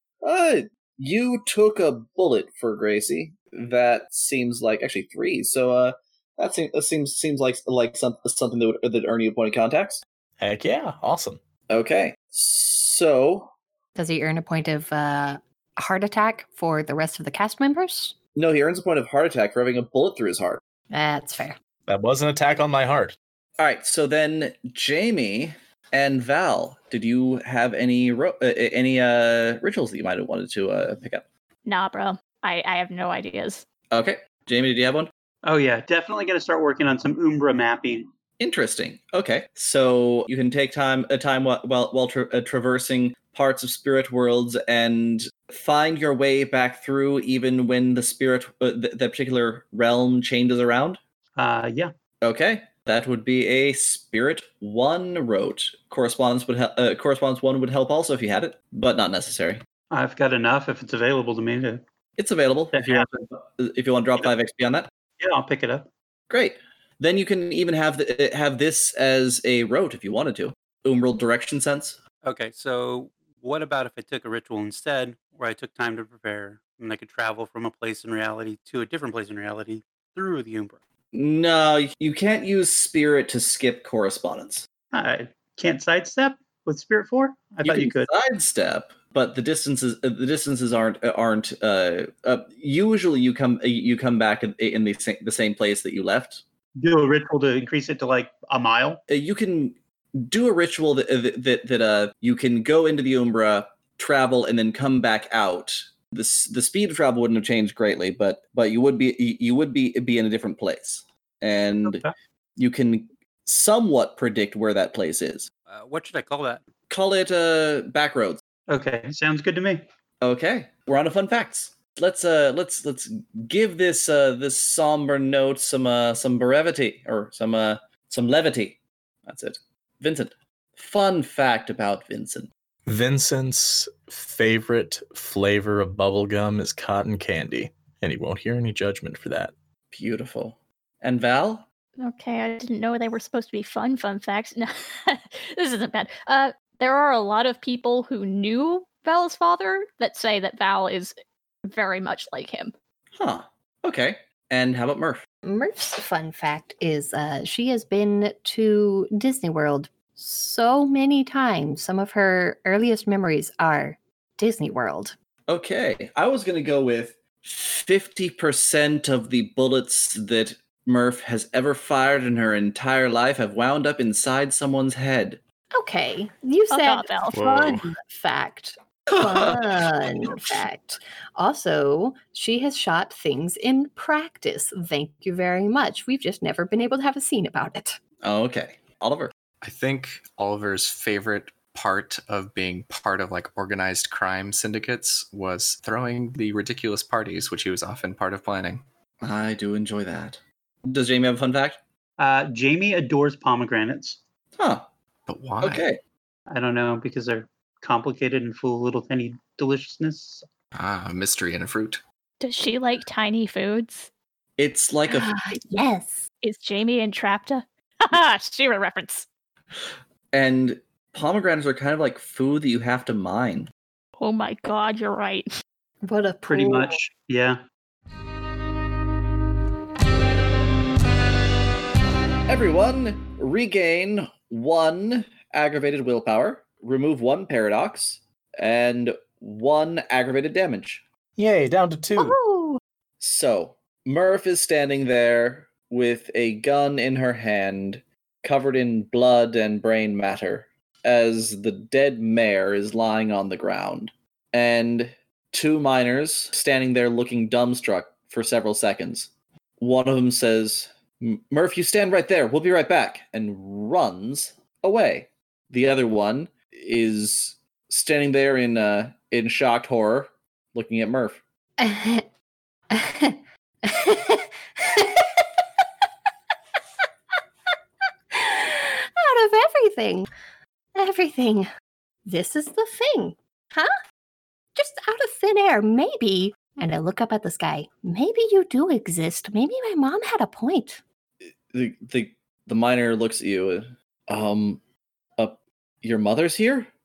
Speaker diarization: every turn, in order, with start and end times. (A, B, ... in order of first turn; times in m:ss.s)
0:00.2-0:10.0 A
0:10.4-0:11.4 B
0:11.7-0:13.5 A
0:14.0-0:18.2 C
0:18.4-0:20.6 A
0:20.9-0:21.6 C
0:21.9-0:23.2 B
0:23.6-0:31.2 A
0:31.7-0:33.6 D
0:33.9-0:35.1 A
0:35.4-0:38.1 E
0:38.4-0:51.0 A
0:51.4-0:51.9 E
0:52.2-0:59.6 A
0:59.9-1:01.8 E
1:02.2-1:04.9 A
1:02.7-1:03.1 E
1:05.2-1:05.9 E
1:06.3-1:12.0 A
1:12.2-1:20.8 F
1:21.1-1:24.7 A
1:24.9-1:28.1 E
1:27.6-1:36.4 A
1:36.8-1:39.0 E
1:39.1-1:52.0 A
1:52.6-1:55.5 A
1:55.7-1:56.7 F
1:56.9-1:58.4 A
1:58.7-1:59.9 E
2:00.2-2:12.5 A
2:12.9-2:19.5 B
2:19.9-2:21.6 A
2:22.0-2:32.7 D
2:33.2-2:35.2 A
2:35.4-2:45.2 C
2:45.5-2:55.4 A
2:55.7-3:08.0 C
2:56.7-2:57.4 D
2:57.3-2:57.9 G
2:59.1-2:59.6 A
3:08.2-3:09.3 A
3:09.6-3:18.8 G
3:19.2-3:21.8 A
3:22.2-3:24.2 E
3:24.6-3:24.9 A
3:25.3-3:25.8 G
3:25.6-3:26.0 A
3:26.5-3:30.5 E
3:30.7-3:32.0 G
3:32.4-3:34.1 D
3:34.6-3:35.3 A
3:35.1-3:36.3 C
3:36.4-3:39.3 D
3:40.3-3:43.7 A
3:44.2-3:45.5 D
3:46.0-3:47.0 C
3:46.5-3:47.6 E
3:52.5-4:01.0 A
4:01.4-4:02.4 B
4:02.2-4:02.8 C
4:03.2-4:31.4 A
4:31.8-4:32.3 C
4:32.9-4:35.4 C
4:38.3-4:40.3 C
4:41.0-4:41.7 C
4:42.3-4:44.0 C
4:44.8-4:51.0 C
4:51.4-4:54.8 A
4:55.4-4:56.9 A